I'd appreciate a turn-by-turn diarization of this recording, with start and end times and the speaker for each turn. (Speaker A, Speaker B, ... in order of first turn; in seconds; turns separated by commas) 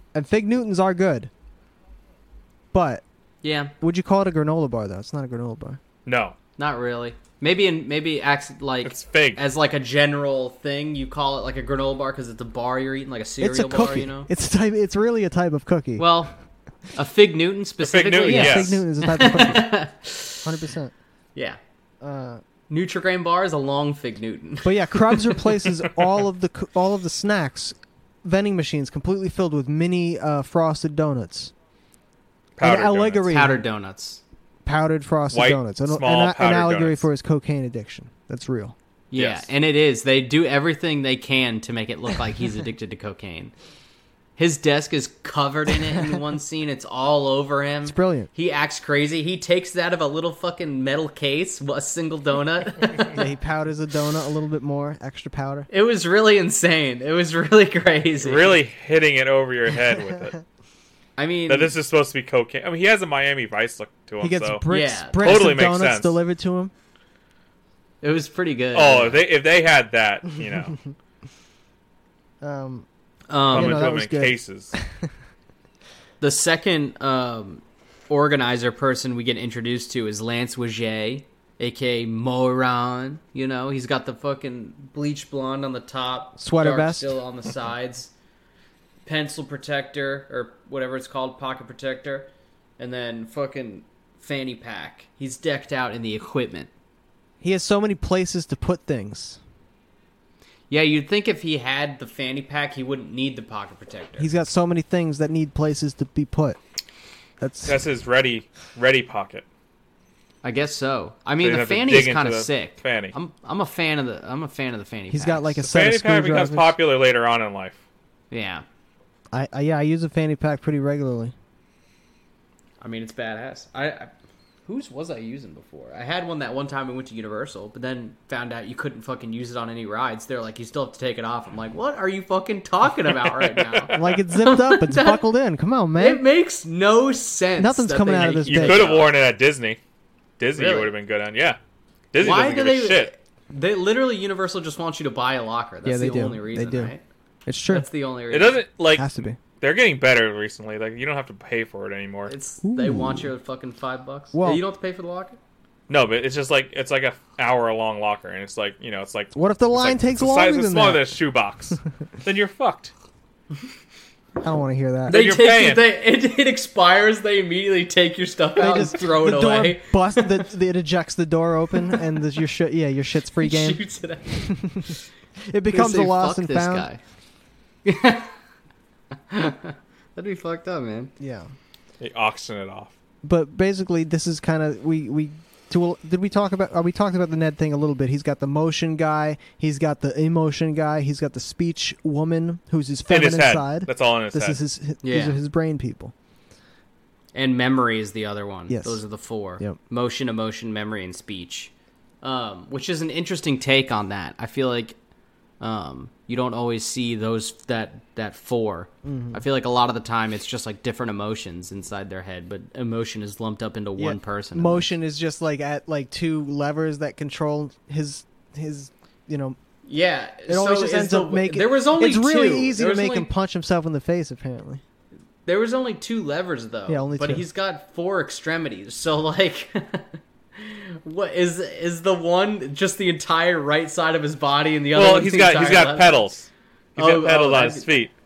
Speaker A: 0.1-1.3, Speaker A: 2.7-3.0, Speaker B: 3.4-3.7, Speaker A: 3.8-5.8, Speaker C: 6.0-6.3, Speaker B: 6.6-14.3, Speaker C: 8.8-9.4, Speaker A: 13.4-16.1, Speaker B: 16.0-16.3, Speaker B: 16.9-20.5, Speaker C: 17.8-18.8, Speaker A: 18.2-19.8, Speaker A: 20.4-20.9, Speaker A: 22.0-22.4, Speaker B: 22.7-25.5, Speaker A: 24.6-31.5, Speaker C: 32.6-33.3, Speaker A: 32.6-33.6, Speaker B: 33.3-34.2, Speaker A: 34.6-38.7, Speaker C: 35.3-37.0, Speaker B: 39.1-43.5, Speaker C: 39.1-39.5, Speaker B: 44.4-53.2, Speaker A: 47.9-48.3, Speaker A: 53.1-55.7, Speaker B: 55.7-58.6, Speaker C: 58.2-60.4, Speaker B: 61.2-61.7, Speaker C: 61.5-66.2, Speaker A: 64.2-66.7, Speaker B: 64.7-65.4, Speaker B: 68.0-69.2, Speaker C: 68.7-70.8, Speaker A: 72.4-72.8, Speaker B: 73.3-73.9, Speaker C: 73.5-74.7, Speaker A: 73.5-74.8, Speaker B: 76.2-88.1, Speaker A: 86.4-87.1, Speaker B: 89.0-96.7, Speaker A: 97.4-99.4, Speaker B: 100.7-104.3, Speaker A: 104.2-106.6, Speaker A: 107.4-107.8, Speaker C: 107.7-109.4, Speaker B: 110.4-115.6, Speaker C: 111.4-113.1, Speaker A: 115.1-116.7, Speaker C: 115.6-117.8, Speaker B: 118.3-118.6, Speaker A: 119.3-121.3, Speaker B: 122.8-124.1, Speaker B: 124.7-135.2, Speaker C: 133.2-134.1, Speaker A: 133.9-136.2, Speaker B: 136.0-139.1, Speaker A: 137.6-138.9, Speaker C: 138.4-139.8, Speaker C: 140.4-141.6, Speaker B: 140.5-140.9, Speaker C: 142.1-143.1, Speaker B: 142.2-147.0, Speaker A: 145.8-146.9, Speaker A: 147.4-147.9, Speaker B: 147.7-148.6, Speaker C: 148.3-152.3, Speaker A: 148.9-149.4, Speaker B: 152.3-155.4, Speaker A: 152.6-153.3, Speaker A: 154.3-154.6, Speaker C: 155.9-162.9, Speaker A: 159.3-161.0, Speaker A: 164.4-165.2, Speaker C: 165.1-165.9, Speaker B: 165.1-170.4, Speaker A: 168.6-173.8, Speaker B: 173.4-174.6, Speaker A: 174.3-174.9, Speaker A: 175.5-176.9, Speaker B: 175.7-177.0, Speaker B: 177.8-178.3, Speaker B: 179.3-181.1, Speaker A: 181.2-181.5, Speaker C: 182.0-182.9, Speaker A: 183.2-196.1, Speaker C: 193.1-194.6, Speaker B: 195.0-195.4, Speaker B: 197.3-204.9, Speaker A: 198.7-199.0, Speaker B: 205.6-214.9, Speaker A: 209.0-209.4, Speaker A: 214.0-219.6, Speaker B: 219.8-223.3, Speaker A: 220.5-224.8, Speaker B: 225.4-236.2, Speaker A: 226.9-227.4, Speaker C: 234.9-238.1, Speaker B: 237.0-237.9